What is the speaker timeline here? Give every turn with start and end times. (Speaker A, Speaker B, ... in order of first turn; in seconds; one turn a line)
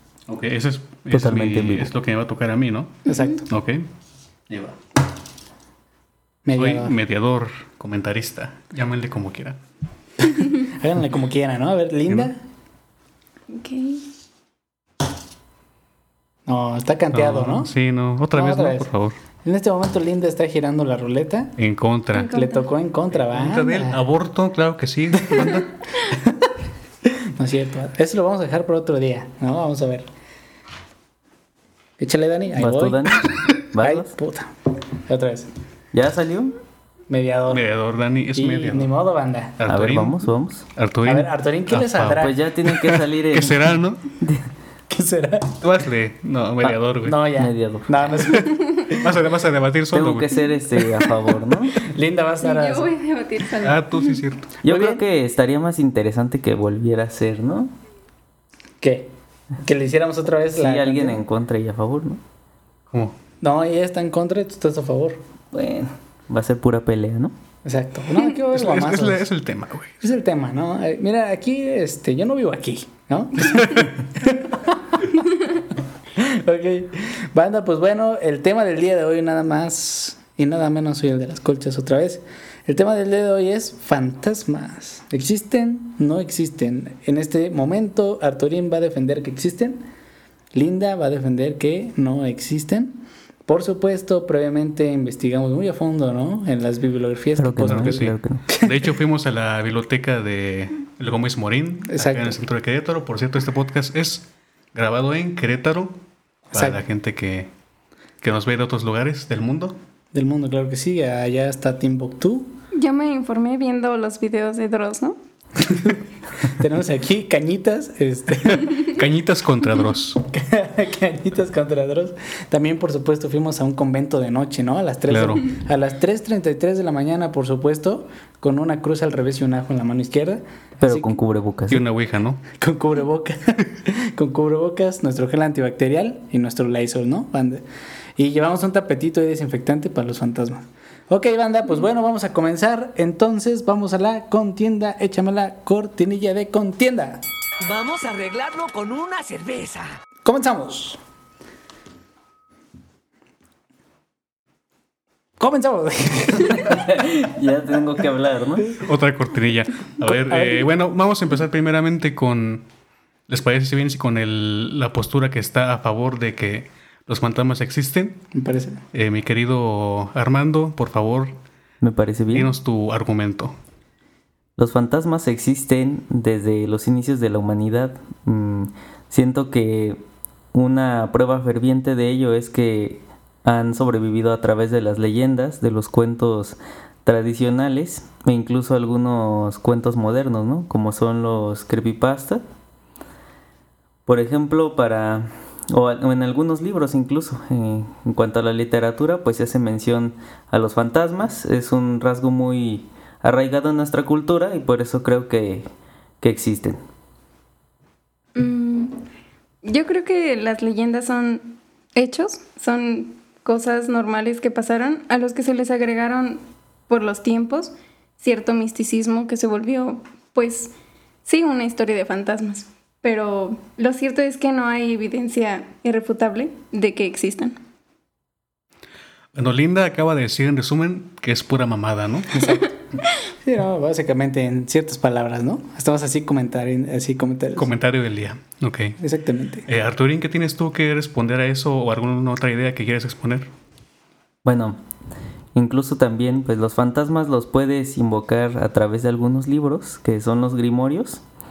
Speaker A: 0.3-3.9
Speaker B: 1.1-1.9
Speaker C: 3.0-3.4
Speaker D: 3.1-3.4
Speaker A: 4.5-4.8
Speaker C: 6.5-6.9
Speaker A: 6.6-9.6
Speaker C: 10.4-12.4
Speaker D: 13.5-14.0
Speaker C: 16.4-17.7
Speaker A: 17.1-19.1
Speaker C: 18.3-18.9
Speaker C: 19.4-21.5
Speaker A: 21.6-22.3
Speaker D: 22.1-22.7
Speaker C: 22.3-24.0
Speaker A: 23.1-25.7
Speaker C: 25.2-25.6
Speaker C: 27.1-30.1
Speaker C: 32.0-34.5
Speaker B: 32.5-34.1
Speaker C: 35.0-35.5
Speaker B: 35.9-36.5
Speaker C: 37.1-37.6
Speaker A: 37.5-38.9
Speaker C: 38.3-39.6
Speaker A: 39.6-40.2
Speaker B: 39.7-40.6
Speaker A: 40.7-44.0
Speaker C: 41.0-42.4
Speaker B: 42.1-44.5
Speaker C: 44.9-45.6
Speaker A: 45.6-47.2
Speaker C: 47.0-49.1
Speaker B: 47.3-48.0
Speaker A: 48.4-50.3
Speaker B: 49.9-51.8
Speaker C: 51.7-52.9
Speaker D: 52.4-54.2
Speaker A: 53.6-54.5
Speaker C: 54.6-55.0
Speaker B: 54.6-57.7
Speaker C: 58.8-59.1
Speaker C: 59.6-61.2
Speaker B: 60.5-62.2
Speaker A: 62.9-63.1
Speaker C: 63.4-65.2
Speaker B: 65.5-67.3
Speaker C: 67.6-69.2
Speaker A: 68.3-70.0
Speaker C: 70.0-75.2
Speaker A: 73.5-73.9
Speaker C: 76.1-89.8
Speaker C: 90.5-98.8
Speaker B: 97.4-98.5
Speaker A: 97.6-106.0
Speaker C: 101.9-102.3
Speaker C: 106.5-106.8
Speaker A: 106.5-107.5
Speaker A: 108.2-109.8
Speaker C: 110.1-112.5
Speaker D: 112.7-115.2
Speaker C: 115.6-118.8
Speaker A: 118.7-120.2
Speaker C: 120.2-131.2
Speaker A: 125.1-125.5
Speaker B: 130.8-131.8
Speaker A: 131.7-132.4
Speaker C: 132.6-137.6
Speaker C: 138.2-147.2
Speaker E: 147.6-149.9
Speaker C: 150.2-151.0
Speaker C: 155.4-157.0
Speaker B: 156.5-158.7
Speaker A: 158.8-162.7
Speaker C: 160.0-160.7
Speaker A: 163.3-168.2
Speaker C: 168.3-168.8
Speaker A: 168.9-171.4
Speaker B: 171.8-172.5
Speaker A: 172.3-173.5
Speaker B: 174.6-180.0
Speaker B: 180.5-192.4
Speaker B: 194.1-205.7
Speaker B: 206.2-206.8
Speaker D: 208.3-209.0
Speaker D: 209.6-220.7
Speaker D: 221.2-227.6
Speaker A: 229.3-232.4
Speaker C: 232.3-232.7
Speaker C: 233.3-237.7
Speaker A: 237.6-239.0
Speaker C: 239.0-239.7
Speaker A: 239.7-243.5
Speaker B: 244.4-244.8
Speaker B: 245.5-251.2